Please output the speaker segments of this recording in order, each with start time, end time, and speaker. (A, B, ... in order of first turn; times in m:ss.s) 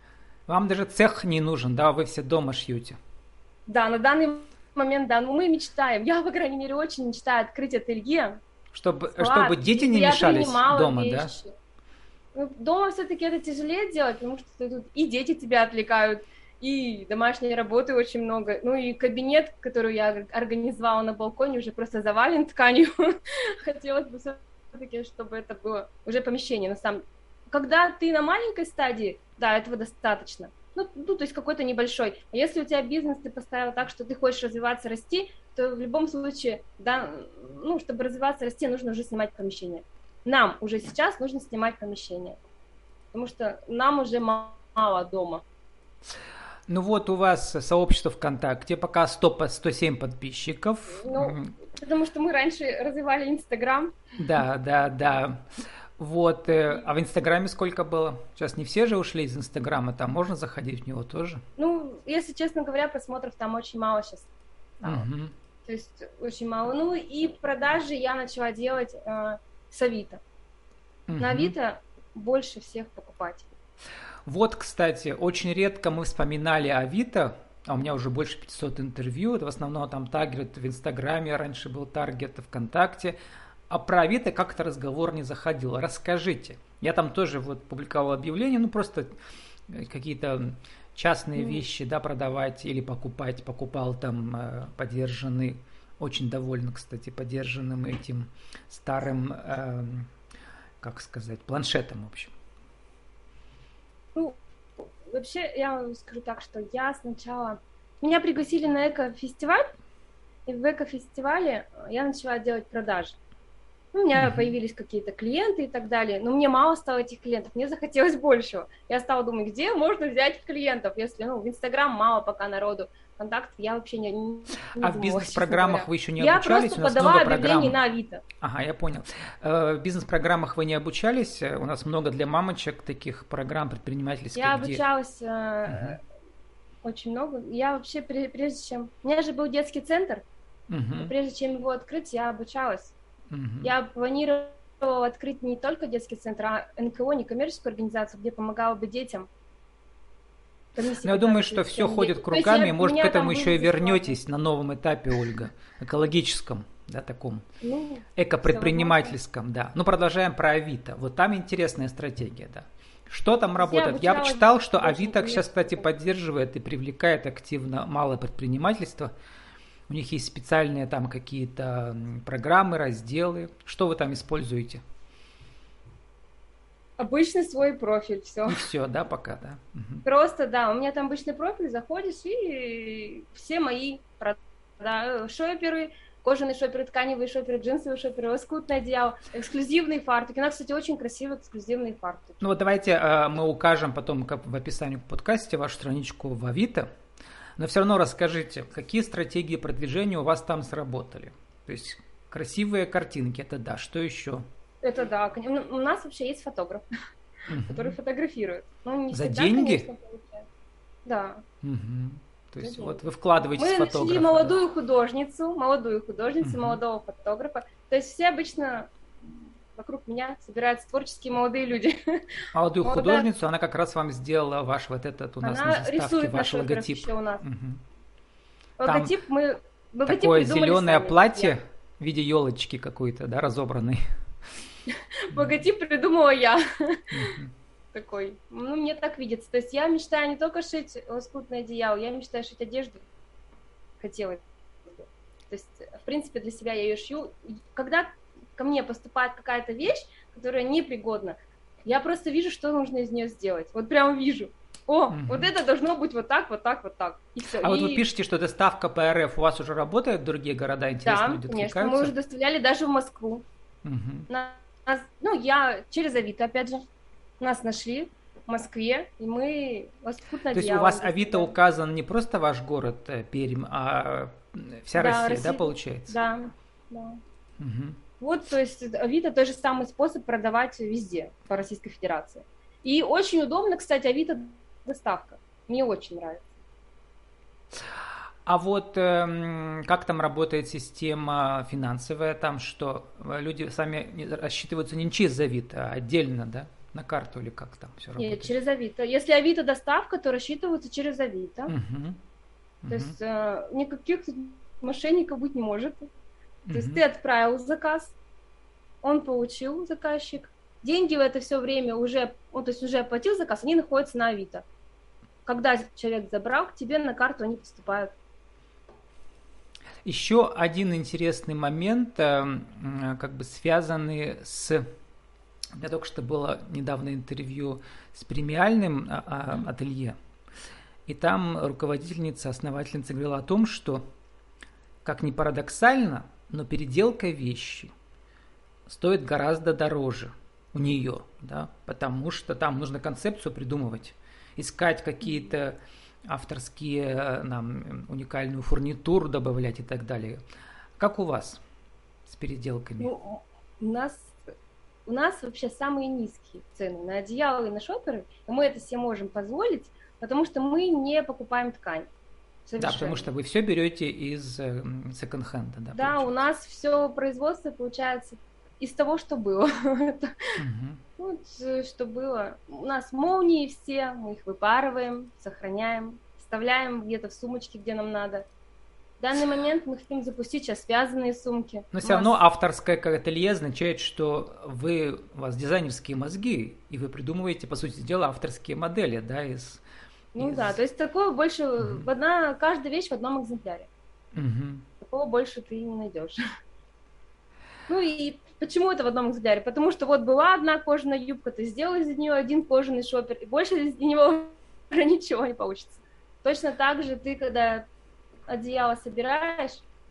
0:00.5-0:03.0 A
0:03.7-0:08.4 B
0:08.7-0:11.3 A
0:09.1-0:11.5 B
0:12.3-0:42.4 B
0:43.1-0:45.4 B
0:46.7-0:51.5 A
0:50.9-0:54.0 B
0:54.2-0:55.4 A
0:56.0-1:01.4 A
1:01.6-1:05.1 B
1:04.8-1:05.3 A
1:05.6-1:10.2 B
1:11.1-1:11.5 A
1:11.2-1:13.5 B
1:14.2-1:23.2 A
1:23.7-1:29.1 A
1:29.7-1:40.1 A
1:31.4-1:31.6 B
1:40.8-1:42.3 A
1:45.1-1:49.7 B
1:50.5-1:53.2 B
1:53.9-2:08.2 B
1:54.1-1:54.5 A
2:04.8-2:07.8 A
2:08.4-2:14.8 A
2:14.3-2:16.0 B
2:15.7-2:16.0 A
2:16.8-2:20.2 B
2:20.7-2:21.1 A
2:21.0-2:22.9 B
2:23.3-2:23.7 A
2:23.6-2:29.3 B
2:30.8-2:34.2 B
2:31.0-2:37.4 A
2:37.6-2:39.1 B
2:38.2-2:49.1 A
2:43.6-2:45.9 B
2:49.9-2:54.8 A
2:57.0-2:58.6 B
2:58.4-3:00.0 A
3:00.0-3:12.4 B
3:12.4-3:16.9 A
3:17.6-3:24.4 A
3:24.8-3:26.8 B
3:27.5-3:28.0 A
3:27.6-3:30.4 B
3:29.1-3:29.9 A
3:31.0-3:31.4 B
3:31.6-3:34.6 A
3:32.6-3:33.0 B
3:33.6-3:42.0 B
3:36.4-3:36.8 A
3:42.5-3:47.8 A
3:42.8-3:43.3 B
3:45.4-3:47.4 B
3:48.8-3:51.5 B
3:48.8-3:49.1 A
3:50.0-3:54.0 A
3:55.3-3:57.4 B
3:57.1-3:57.5 A
3:57.9-4:03.0 B
4:04.0-4:18.0 B
4:15.1-4:15.5 A
4:17.6-4:22.1 A
4:21.0-4:23.4 B
4:23.8-4:24.3 A
4:24.3-4:26.8 B
4:27.4-4:31.5 B
4:30.5-4:36.2 A
4:34.9-4:37.2 B
4:37.6-4:38.0 A
4:38.2-4:46.4 B
4:48.4-4:58.5 A
4:58.2-5:01.7 B
5:01.7-5:02.2 A
5:02.8-5:03.1 A
5:02.9-5:06.1 B
5:06.7-5:07.0 A
5:06.7-5:08.1 B
5:09.0-5:14.6 B
5:15.4-5:18.1 B
5:20.0-5:24.8 A
5:25.8-5:30.2 A
5:31.1-5:34.0 A
5:35.0-5:37.9 A
5:38.8-5:45.8 A
5:46.3-5:50.4 A
5:51.0-5:51.6 A
5:52.2-5:53.1 A
5:53.0-5:54.4 B
5:55.0-6:02.1 B
6:02.6-6:03.3 B
6:02.8-6:06.4 A
6:05.9-6:10.3 B
6:10.6-6:11.0 A
6:11.2-6:18.4 B
6:19.2-6:22.4 B
6:21.9-6:29.8 A
6:30.3-6:33.9 B
6:30.4-6:30.8 A
6:31.8-6:32.0 A
6:34.3-6:34.8 A
6:35.0-6:36.4 B
6:37.9-6:47.9 B
6:48.5-6:49.8 B